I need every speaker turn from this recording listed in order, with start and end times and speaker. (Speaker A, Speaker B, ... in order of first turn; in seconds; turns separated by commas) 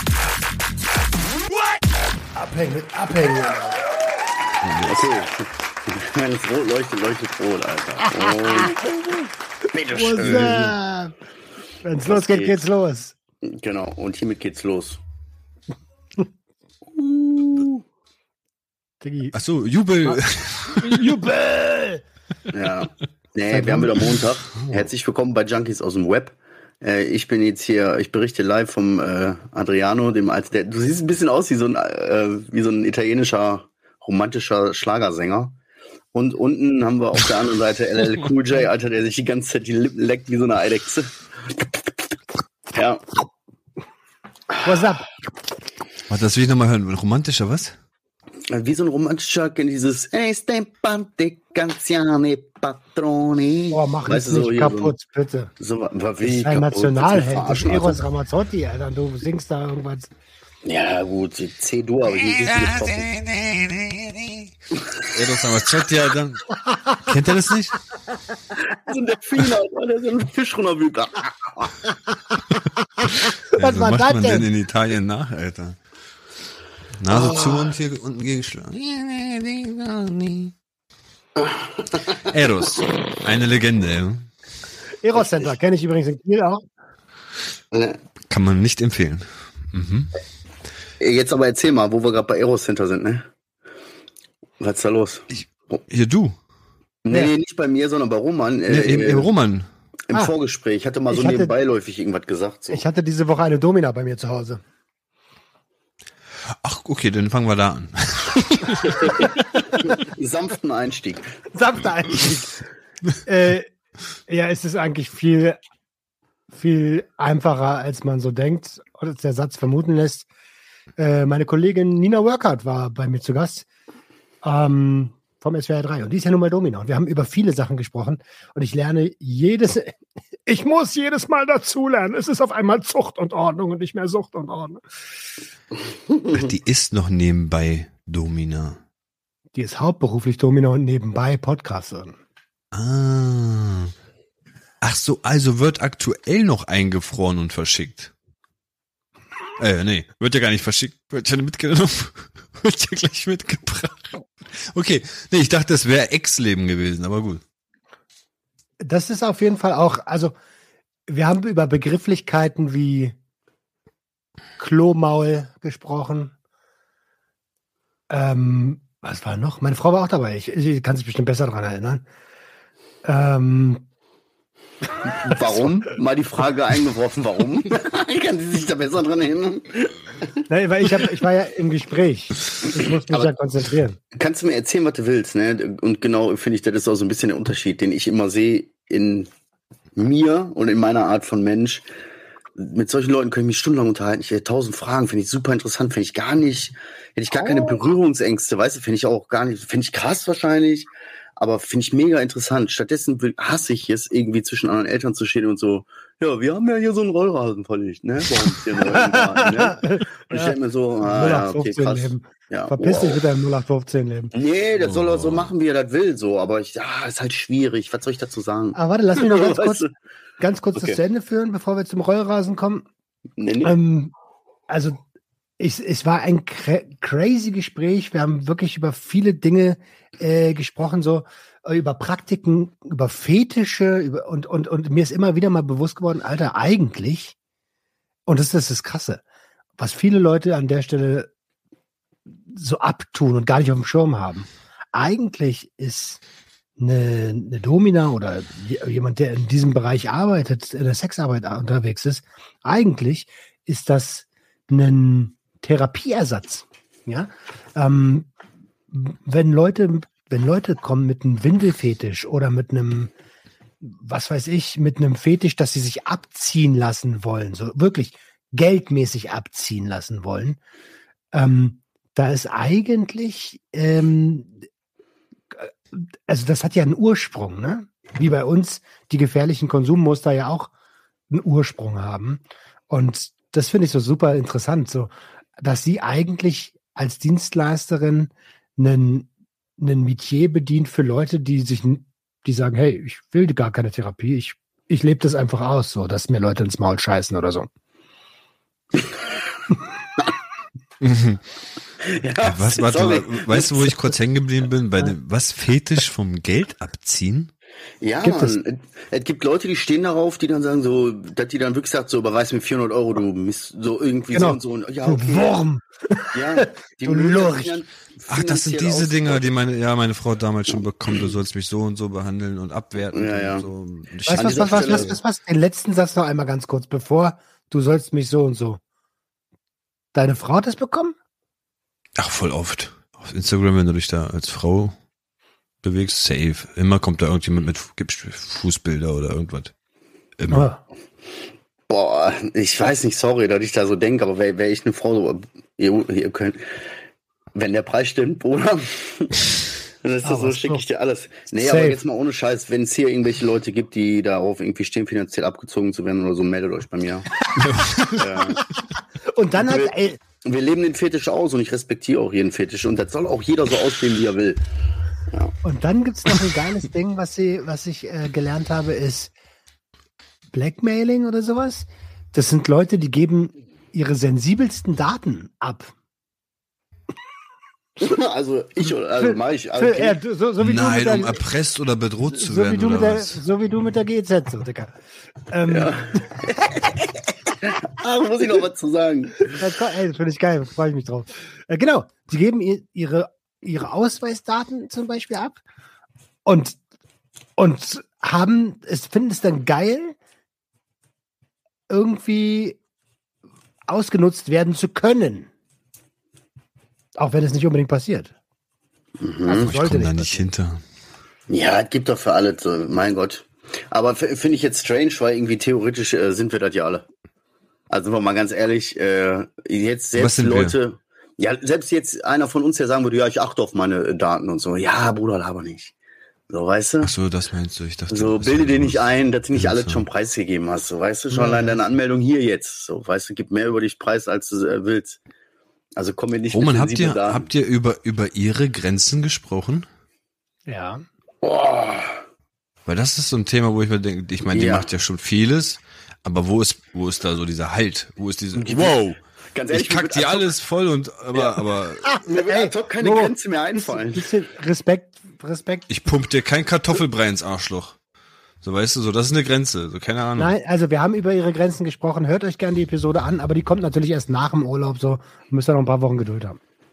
Speaker A: 2.3-3.9, Speaker B: 4.6-5.1, Speaker C: 4.8-8.9, Speaker C: 9.7-10.7, Speaker A: 9.9-11.1, Speaker B: 10.2-10.7, Speaker A: 11.8-13.1, Speaker C: 12.0-12.6, Speaker C: 13.4-15.0, Speaker C: 16.9-17.8, Speaker A: 19.0-19.4, Speaker B: 19.3-21.1, Speaker A: 20.8-22.0, Speaker C: 22.5-35.5, Speaker A: 23.5-24.1, Speaker B: 24.6-24.9, Speaker C: 36.1-41.9, Speaker C: 42.7-43.0, Speaker A: 44.6-45.1, Speaker B: 46.1-47.8, Speaker C: 48.5-54.9, Speaker A: 53.7-55.5, Speaker C: 55.6-58.0, Speaker A: 56.2-60.1, Speaker C: 60.6-63.1, Speaker C: 64.8-65.0, Speaker B: 65.0-66.5, Speaker B: 67.0-67.8, Speaker C: 68.7-71.8, Speaker A: 73.5-74.5, Speaker B: 73.6-75.8, Speaker B: 77.0-80.5, Speaker C: 77.1-77.7, Speaker C: 81.4-82.3, Speaker B: 82.2-84.3, Speaker A: 85.0-86.6, Speaker C: 87.7-88.0, Speaker B: 88.3-90.1, Speaker C: 91.0-93.3, Speaker C: 94.6-95.8, Speaker B: 95.9-96.3, Speaker C: 97.0-99.3, Speaker B: 98.7-99.7, Speaker C: 100.1-102.8, Speaker A: 101.1-101.5, Speaker A: 102.7-104.6, Speaker B: 106.5-109.2, Speaker C: 109.0-111.3, Speaker A: 111.5-112.6, Speaker A: 113.2-113.7, Speaker A: 114.3-115.6, Speaker A: 116.5-120.3, Speaker A: 121.0-123.7, Speaker A: 124.4-134.8, Speaker B: 136.3-138.8, Speaker A: 139.5-142.2, Speaker B: 142.7-143.9, Speaker B: 144.8-148.1, Speaker B: 149.6-157.4, Speaker A: 158.8-160.3, Speaker A: 161.1-163.1, Speaker A: 164.6-166.3, Speaker A: 168.1-172.0, Speaker A: 173.0-173.8, Speaker C: 175.1-180.3, Speaker A: 175.2-175.7, Speaker A: 180.5-184.0, Speaker C: 182.7-183.3, Speaker C: 184.1-189.3, Speaker C: 189.9-191.8, Speaker C: 192.6-213.2, Speaker A: 197.4-197.7, Speaker A: 208.8-214.3, Speaker C: 214.3-219.9, Speaker B: 214.8-215.5, Speaker A: 218.7-219.8, Speaker A: 220.4-222.8, Speaker C: 223.4-223.7, Speaker A: 223.6-224.1, Speaker A: 224.7-225.0, Speaker A: 225.6-237.3, Speaker A: 238.3-239.2, Speaker A: 239.8-241.3, Speaker A: 242.5-246.2, Speaker A: 246.8-258.3, Speaker A: 258.9-263.1, Speaker A: 263.8-270.6, Speaker A: 271.3-274.5, Speaker A: 275.5-280.7, Speaker A: 281.3-297.7, Speaker B: 301.0-301.4, Speaker C: 302.0-304.1, Speaker B: 302.4-307.5, Speaker C: 308.0-315.6, Speaker A: 308.2-308.6, Speaker A: 314.3-317.8, Speaker C: 316.3-319.5, Speaker B: 318.3-325.2, Speaker C: 323.1-323.7, Speaker A: 324.3-328.8, Speaker C: 324.3-325.1, Speaker A: 330.1-331.1, Speaker B: 332.2-335.0, Speaker B: 335.8-339.7, Speaker B: 340.4-340.7, Speaker A: 340.5-340.8, Speaker C: 341.9-346.8, Speaker C: 347.5-357.3, Speaker A: 350.2-350.8, Speaker A: 351.5-352.0, Speaker B: 357.6-358.3, Speaker C: 358.2-358.6, Speaker A: 359.3-360.2, Speaker C: 359.6-359.9, Speaker C: 360.4-364.6, Speaker A: 365.6-369.3, Speaker A: 370.5-375.9, Speaker C: 378.0-380.2, Speaker A: 379.2-381.4, Speaker B: 380.6-383.4, Speaker A: 382.3-384.9, Speaker A: 385.5-386.3, Speaker C: 385.7-387.0, Speaker C: 387.6-389.6, Speaker A: 389.5-395.6, Speaker A: 396.4-396.8, Speaker A: 397.6-400.1, Speaker A: 401.9-402.8, Speaker A: 403.9-405.5, Speaker A: 407.1-408.3, Speaker C: 409.2-409.7, Speaker A: 409.4-410.4, Speaker B: 409.6-410.8, Speaker C: 411.5-417.1, Speaker C: 417.9-425.9, Speaker B: 420.1-420.8, Speaker C: 426.5-427.1, Speaker B: 427.0-430.0, Speaker C: 428.1-435.2, Speaker A: 431.3-431.8, Speaker C: 436.0-437.5, Speaker B: 436.5-439.9, Speaker A: 440.7-441.0, Speaker C: 441.4-442.2, Speaker B: 442.9-449.2, Speaker C: 444.5-444.9, Speaker C: 448.6-449.0, Speaker C: 449.5-450.5, Speaker B: 449.7-452.2, Speaker A: 452.0-455.9, Speaker C: 452.2-454.3, Speaker B: 455.9-457.9, Speaker B: 458.6-460.5, Speaker A: 460.4-466.6